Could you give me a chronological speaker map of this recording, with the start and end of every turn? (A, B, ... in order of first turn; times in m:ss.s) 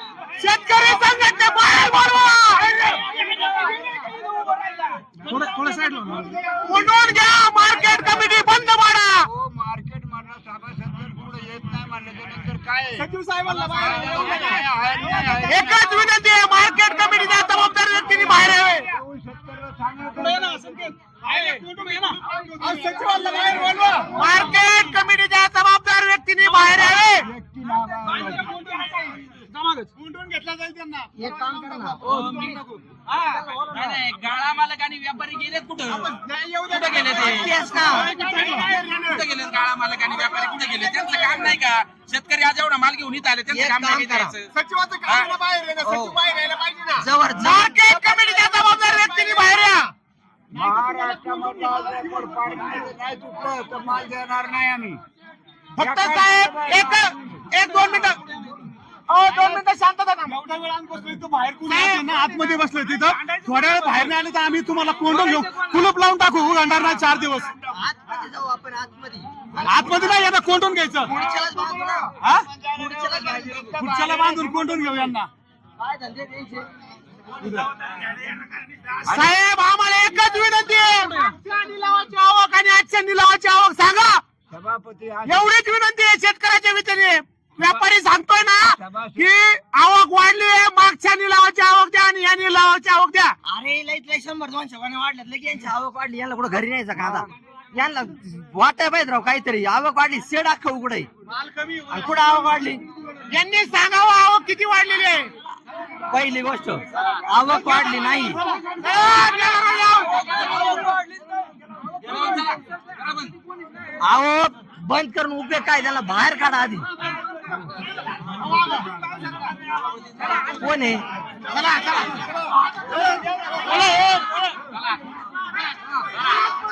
0:00.4-0:02.8 A
0:02.7-0:06.3 B
0:05.3-0:06.2 C
0:06.0-0:06.4 D
0:06.6-0:09.3 A
0:09.2-0:16.0 D
0:13.0-0:14.6 C
0:13.8-0:14.6 B
0:15.4-0:18.9 A
0:18.0-0:20.9 D
0:20.1-0:24.4 B
0:21.3-0:24.4 C
0:22.6-0:24.1 E
0:24.1-0:27.3 A
0:26.8-0:28.5 D
0:28.0-0:29.9 B
0:30.0-0:31.1 C
0:31.2-0:32.6 E
0:31.8-0:32.8 C
0:32.0-0:44.5 B
0:33.3-0:34.0 E
0:35.9-0:39.2 C
0:37.1-0:38.1 E
0:38.2-0:39.1 A
0:40.2-0:41.5 C
0:43.5-0:44.4 E
0:44.6-0:47.0 C
0:45.8-0:46.2 E
0:47.0-0:47.8 E
0:47.4-0:49.9 A
0:48.0-0:49.7 C
0:50.5-0:55.0 D
0:50.6-0:52.5 C
0:55.8-0:58.2 A
0:55.8-0:57.2 D
0:57.6-0:58.3 B
0:59.1-1:00.4 A
0:59.3-0:59.6 C
1:00.3-1:07.6 C
1:01.6-1:02.1 A
1:02.7-1:04.2 B
1:04.8-1:06.0 B
1:07.6-1:12.1 E
1:09.6-1:11.2 C
1:11.6-1:15.1 D
1:12.2-1:12.5 C
1:12.7-1:13.8 E
1:13.7-1:15.3 C
1:15.8-1:16.7 E
1:17.4-1:19.0 B
1:19.0-1:24.2 A
1:19.0-1:19.4 D
1:24.5-1:25.5 D
1:25.2-1:33.4 A
1:28.6-1:29.3 D
1:33.4-1:41.1 E
1:37.0-1:37.3 D
1:41.3-1:42.1 C
1:41.9-1:42.8 E
1:43.3-1:45.3 A
1:46.1-1:48.4 E
1:48.4-1:49.3 B
1:48.6-1:50.4 A
1:50.0-1:51.0 B
1:50.4-1:50.8 E
1:52.0-1:53.3 B
1:54.0-1:56.9 E
1:58.4-2:00.7 B
2:00.2-2:01.0 E
2:01.5-2:02.3 A
2:02.9-2:04.4 A
2:03.0-2:04.2 B